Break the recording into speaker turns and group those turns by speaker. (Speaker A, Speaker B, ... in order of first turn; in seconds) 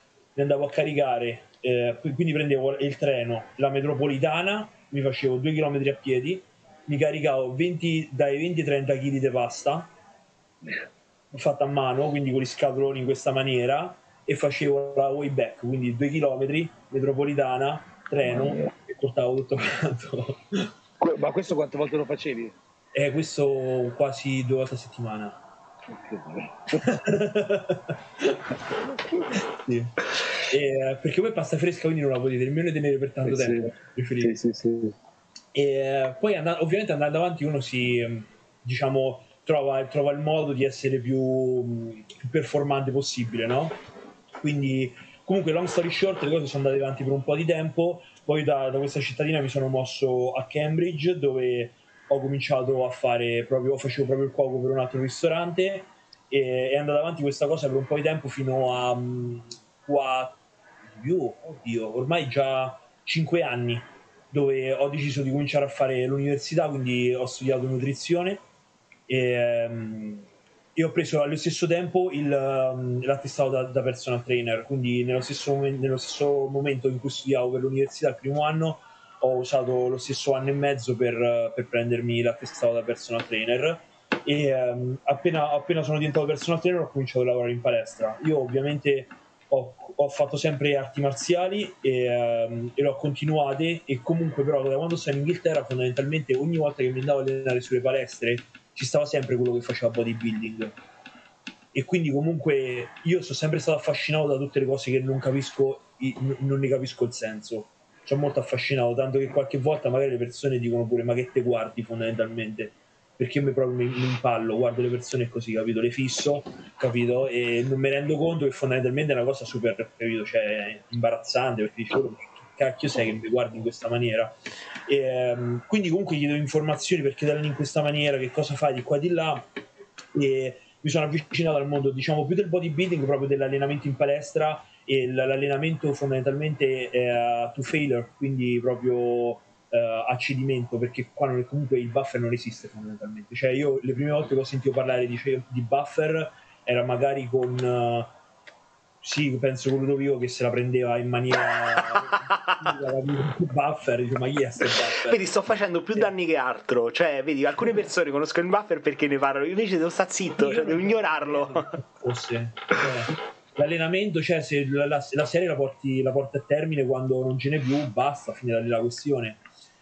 Speaker A: 0.3-9.9, 11.3-20.7, 22.9-25.4, 26.8-28.6, 29.3-34.4, 35.5-43.8, 44.4-68.4, 69.1-100.8, 101.7-124.3, 124.9-129.5, 130.1-148.1, 149.0-155.2, 160.3-169.4
Speaker B: 18.4-18.7, 21.0-22.6, 25.9-26.9, 33.3-35.0
Speaker C: 151.9-152.7, 154.8-161.8